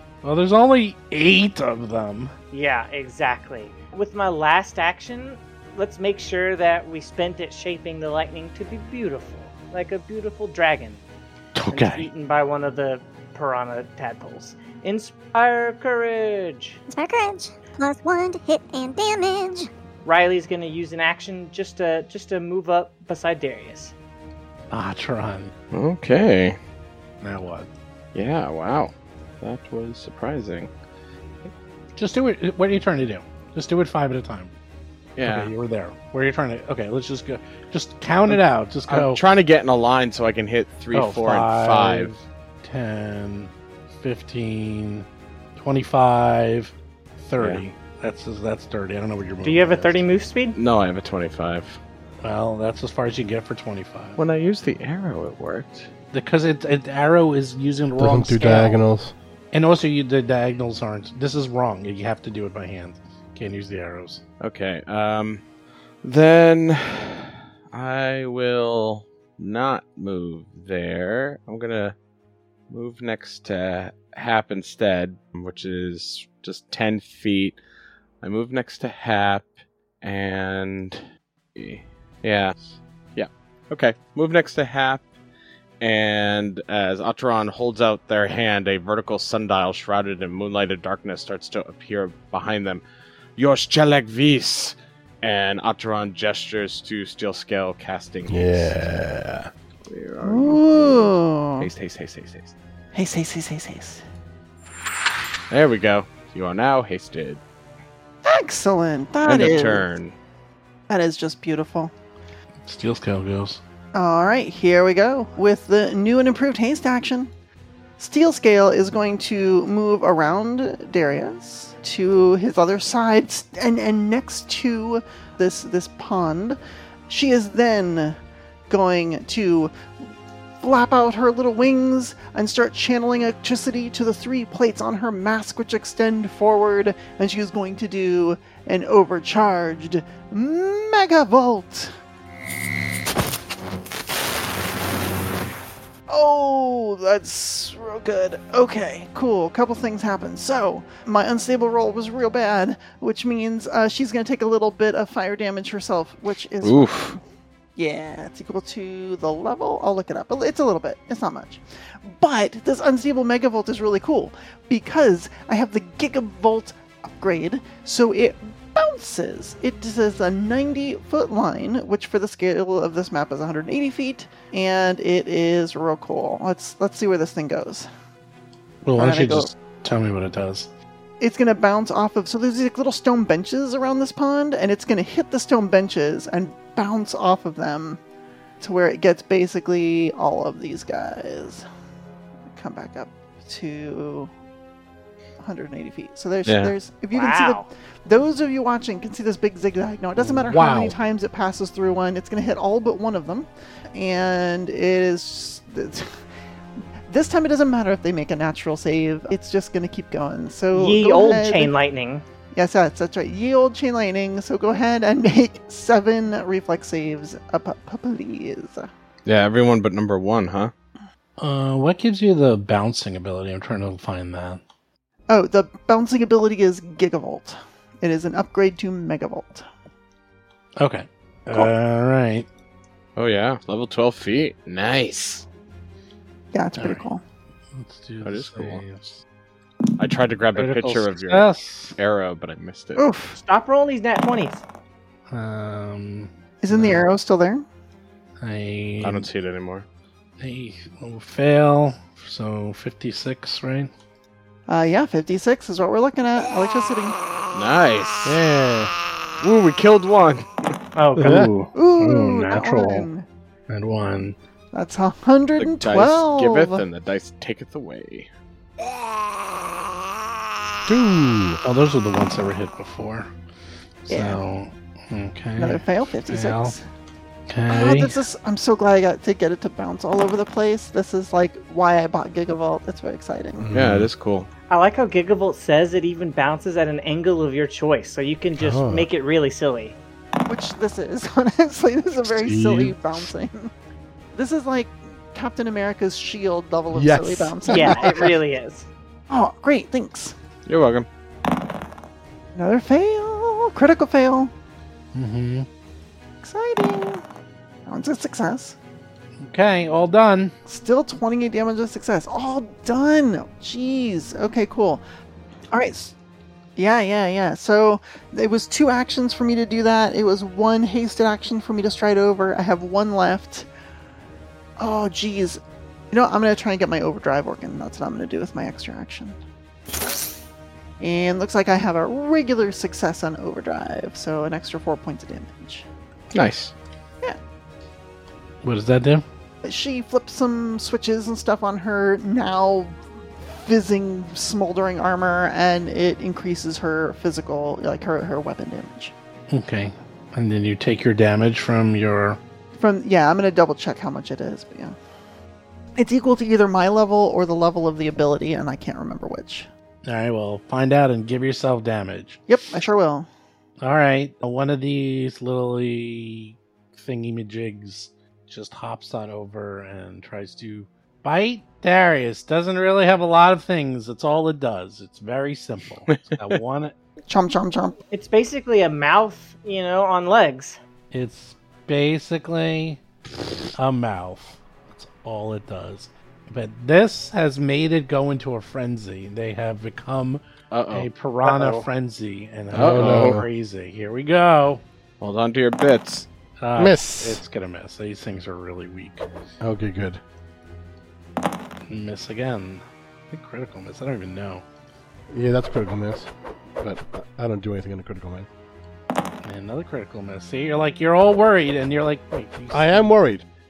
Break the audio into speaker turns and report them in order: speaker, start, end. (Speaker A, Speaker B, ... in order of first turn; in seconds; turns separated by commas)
Speaker A: 0.2-2.3, Speaker B: 2.5-11.0, Speaker A: 11.6-12.1, Speaker B: 11.7-16.8, Speaker C: 16.9-19.7, Speaker B: 20.0-23.9, Speaker A: 24.7-25.5, Speaker D: 25.7-26.6, Speaker A: 27.2-27.7, Speaker D: 28.1-30.7, Speaker A: 32.0-34.5, Speaker D: 35.2-35.5, Speaker A: 35.2-39.2, Speaker D: 38.3-42.1, Speaker A: 40.9-50.0, Speaker D: 47.4-47.6, Speaker B: 49.4-50.6, Speaker D: 50.6-51.8, Speaker A: 52.2-54.2, Speaker D: 54.2-55.9, Speaker A: 56.1-58.8, Speaker E: 58.0-59.1, Speaker A: 59.5-64.2, Speaker D: 64.4-65.4, Speaker D: 66.0-72.0, Speaker D: 72.7-77.6, Speaker D: 78.2-79.5, Speaker D: 80.0-81.0, Speaker D: 81.5-85.0, Speaker D: 85.8-92.8, Speaker D: 93.4-98.7, Speaker E: 98.3-99.5, Speaker D: 99.9-102.5, Speaker F: 100.2-101.7, Speaker F: 102.9-104.0, Speaker D: 105.5-107.4, Speaker F: 108.2-109.9, Speaker D: 109.2-110.2, Speaker F: 110.9-111.9, Speaker A: 112.6-113.6, Speaker F: 113.9-117.3, Speaker F: 118.0-128.2, Speaker F: 128.7-129.7, Speaker F: 130.6-141.9, Speaker F: 146.1-157.2, Speaker D: 156.6-157.2, Speaker F: 157.8-177.9, Speaker A: 178.8-180.7, Speaker F: 179.0-179.5, Speaker F: 181.2-188.0, Speaker F: 188.6-191.6, Speaker F: 192.5-194.3, Speaker F: 195.4-206.2, Speaker D: 196.5-196.7, Speaker B: 197.1-197.7, Speaker A: 200.2-200.9, Speaker F: 207.1-211.7, Speaker B: 210.7-212.2, Speaker F: 212.5-218.9, Speaker D: 219.3-220.7, Speaker A: 221.4-224.6, Speaker F: 225.3-229.7, Speaker A: 230.8-232.5, Speaker D: 233.2-235.5, Speaker F: 236.5-237.2, Speaker A: 236.8-237.1, Speaker A: 237.7-239.2, Speaker D: 238.2-238.8, Speaker D: 240.0-243.0, Speaker A: 240.6-242.0, Speaker F: 243.0-243.4, Speaker B: 243.4-244.6, Speaker A: 245.3-247.1, Speaker F: 246.6-247.6, Speaker A: 248.4-249.3, Speaker D: 249.0-249.9, Speaker A: 250.4-253.9, Speaker F: 254.7-257.2, Speaker D: 257.5-258.4, Speaker E: 258.2-258.9, Speaker D: 259.4-260.8, Speaker B: 260.9-261.5, Speaker A: 261.2-263.1, Speaker E: 261.2-261.5, Speaker F: 261.7-263.3, Speaker A: 263.7-264.4, Speaker F: 264.7-266.8, Speaker D: 265.6-268.3, Speaker E: 270.9-271.6, Speaker A: 271.6-273.3, Speaker A: 274.1-276.8, Speaker F: 274.1-274.4, Speaker F: 275.6-276.8, Speaker A: 277.5-278.2, Speaker F: 277.7-283.7, Speaker E: 283.6-284.1, Speaker D: 283.7-284.5, Speaker B: 284.7-290.0, Speaker E: 288.6-289.1, Speaker F: 290.5-293.7, Speaker E: 292.4-292.9, Speaker F: 294.4-298.3, Speaker E: 296.9-298.3, Speaker B: 297.7-298.9, Speaker F: 299.3-300.4, Speaker D: 300.7-301.1, Speaker F: 302.6-304.5, Speaker A: 305.1-305.7, Speaker F: 306.4-307.2, Speaker F: 307.9-308.8, Speaker A: 309.4-310.5, Speaker F: 310.7-315.0, Speaker F: 315.7-316.1, Speaker F: 316.8-323.7, Speaker F: 324.8-325.6, Speaker F: 326.1-329.4, Speaker F: 331.0-335.9, Speaker D: 336.3-336.7, Speaker A: 338.6-339.2, Speaker F: 339.6-343.0, Speaker F: 343.6-349.1, Speaker A: 349.5-352.4, Speaker F: 352.8-355.0, Speaker F: 356.0-359.7, Speaker A: 360.1-362.4, Speaker F: 362.5-363.3, Speaker A: 363.8-376.9, Speaker D: 376.1-376.6, Speaker F: 377.3-378.0, Speaker B: 378.1-380.8, Speaker A: 381.1-383.0, Speaker A: 383.8-394.8, Speaker D: 390.7-391.9, Speaker D: 392.7-393.4, Speaker E: 392.7-393.5, Speaker D: 395.2-396.3, Speaker A: 396.6-399.3, Speaker E: 396.8-397.4, Speaker E: 399.6-400.2, Speaker A: 401.9-404.6, Speaker E: 405.3-406.3, Speaker E: 406.8-408.5, Speaker A: 409.4-413.1, Speaker E: 412.7-413.4